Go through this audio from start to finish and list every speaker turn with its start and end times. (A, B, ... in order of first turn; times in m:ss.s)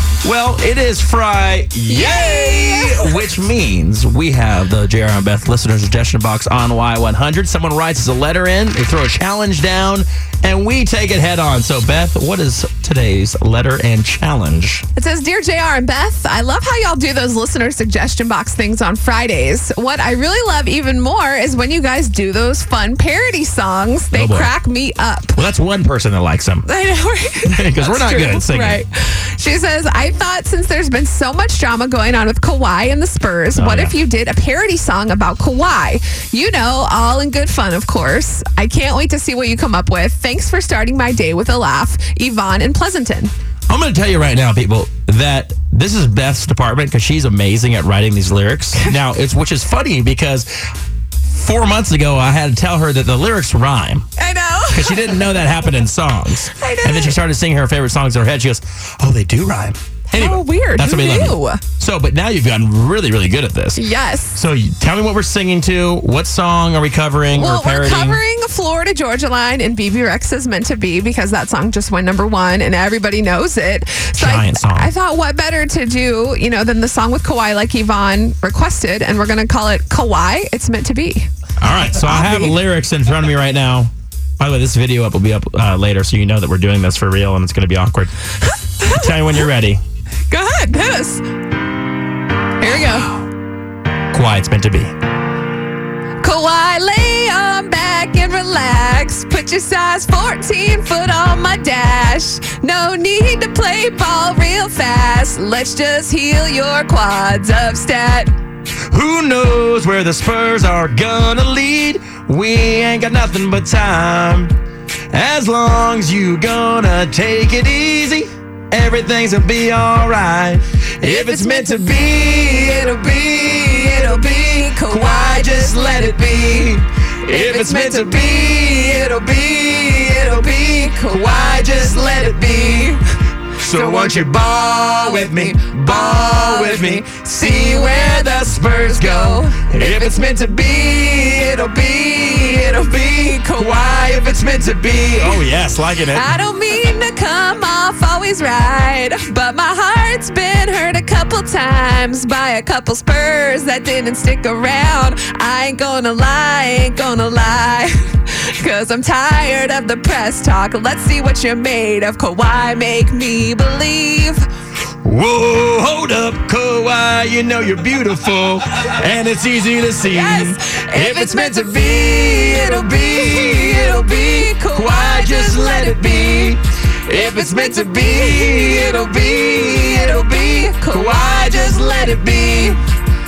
0:00.2-0:14.8 A
0:01.9-0:03.3 B
0:15.0-0:25.4 B
0:24.1-0:24.5 A
0:25.4-0:26.7 A
0:26.6-0:43.3 B
0:27.4-0:28.8 A
0:33.5-0:34.0 A
0:43.7-0:50.5 A
0:51.3-0:54.0 A
0:54.2-0:55.5 B
0:54.7-1:08.2 A
0:56.5-0:57.2 B
1:00.1-1:01.6 B
1:03.7-1:04.4 B
1:07.3-1:21.3 B
1:14.2-1:14.9 A
1:21.6-1:28.1 A
1:21.9-1:22.6 B
1:28.7-1:29.5 B
1:28.8-1:29.8 A
1:30.3-1:31.2 B
1:32.6-1:33.2 B
1:34.1-1:34.9 A
1:36.2-1:48.3 B
1:48.9-1:54.5 A
1:55.1-2:13.0 A
2:01.0-2:06.4 B
2:07.3-2:08.5 B
2:10.1-2:13.0 B
2:13.5-2:26.2 A
2:13.6-2:20.5 B
2:22.3-2:24.4 B
2:25.0-2:25.4 B
2:26.0-2:44.5 B
2:45.0-3:02.8 A
2:50.0-2:56.6 B
2:57.1-3:02.8 B